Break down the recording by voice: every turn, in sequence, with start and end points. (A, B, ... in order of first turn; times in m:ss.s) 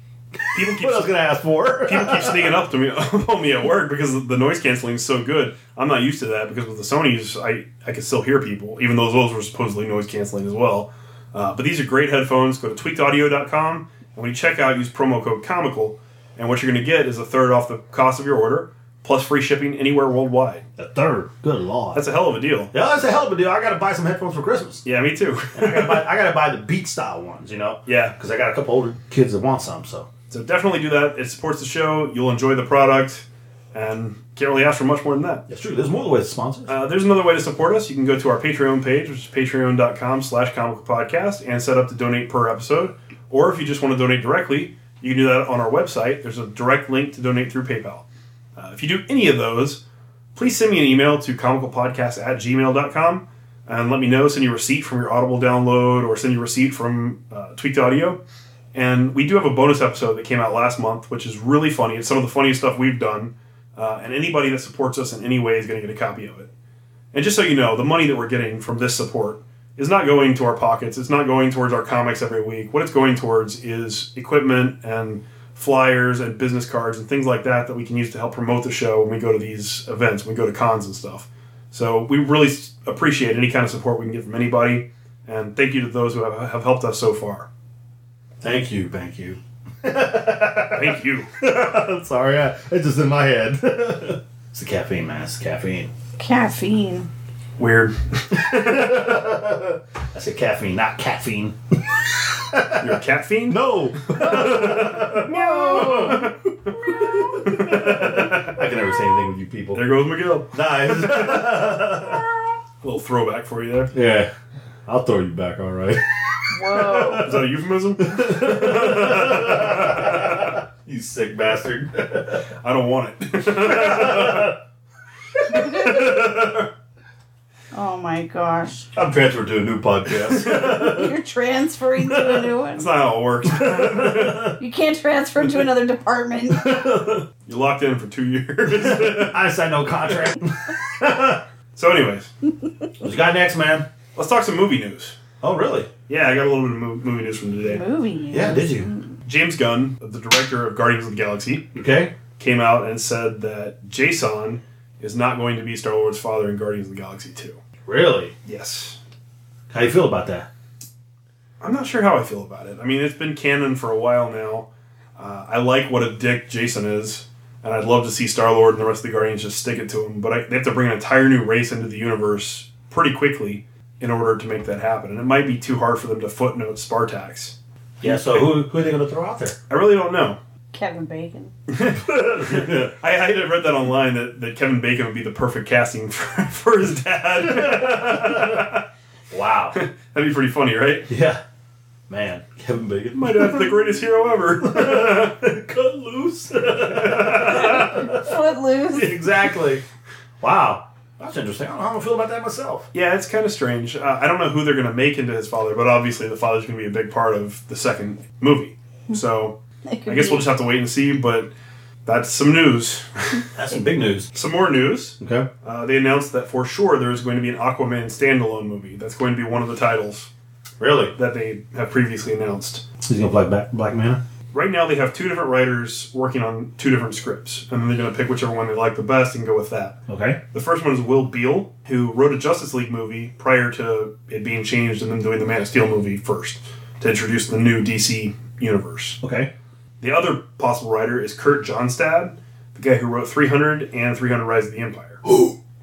0:00.4-0:02.5 A
0:00.5-0:01.1 B
0:01.8-0:20.6 B
0:20.8-0:22.0 A
0:21.9-0:22.7 B
0:22.7-0:24.8 A
0:24.8-0:26.0 B
0:25.5-0:30.1 A
0:27.8-0:28.1 B
0:30.3-0:35.4 B
0:35.5-0:36.7 A
0:36.7-0:48.0 B
0:48.6-0:49.8 B
0:50.3-0:58.2 B
0:58.7-1:06.5 B
1:07.1-1:27.5 B
1:28.4-1:35.9 A
1:30.7-1:31.3 B
1:36.2-1:37.1 C
1:37.6-1:39.0 B
1:38.3-1:42.9 A
1:42.8-1:43.6 B
1:43.5-1:49.8 A
1:44.1-1:48.6 B
1:44.2-1:46.3 C
1:46.8-1:47.3 C
1:49.7-1:51.6 B
1:50.5-1:52.2 A
1:52.8-1:53.9 B
1:53.9-1:54.3 A
1:54.8-1:57.4 A
1:56.5-1:57.3 C
1:57.2-2:00.6 B
1:58.0-2:02.4 A
2:02.6-2:04.5 B
2:03.5-2:04.6 A
2:05.4-2:06.7 A
2:05.5-2:06.0 C
2:05.5-2:06.3 B
2:07.7-2:08.8 C
2:08.9-2:11.1 A
2:10.2-2:10.8 B
2:10.5-2:12.9 C
2:12.7-2:14.6 B
2:13.5-2:14.6 A
2:14.6-2:16.7 C
2:16.5-2:17.2 A
2:17.5-2:19.4 B
2:18.7-2:21.4 A
2:20.1-2:20.3 B
2:21.7-2:22.3 B
2:23.0-2:23.8 A
2:24.2-2:25.2 B
2:25.4-2:25.9 A
2:26.1-2:27.8 B
2:27.6-2:29.1 C
2:28.3-2:28.9 A
2:29.2-2:31.7 B
2:31.7-2:32.1 A
2:32.4-2:37.6 B
2:37.8-2:38.3 A
2:38.4-2:39.0 B
2:39.7-2:40.5 A
2:41.6-2:58.6 B
2:58.0-2:59.6 A
2:59.7-3:00.4 B
3:00.7-3:01.5 C
3:01.7-3:08.8 B
3:01.9-3:02.9 A
3:07.4-3:08.7 A
3:09.3-3:09.8 A
3:09.7-3:11.1 B
3:11.1-3:11.4 A
3:12.1-3:13.6 A
3:13.1-3:15.3 B
3:14.6-3:18.3 A
3:16.9-3:18.0 B
3:17.5-3:19.2 C
3:18.9-3:19.8 A
3:20.4-3:22.9 A
3:22.9-3:31.5 B
3:29.8-3:30.5 C
3:32.0-3:33.4 B
3:33.5-3:34.3 A
3:34.3-3:40.3 B
3:35.2-3:35.5 A
3:40.8-3:41.1 A
3:41.2-3:42.8 B
3:43.0-3:44.2 A
3:44.5-3:50.0 B
3:50.1-3:50.4 A
3:50.5-3:59.2 B
3:59.2-3:59.5 A
4:00.0-4:05.2 B
4:05.2-4:05.6 A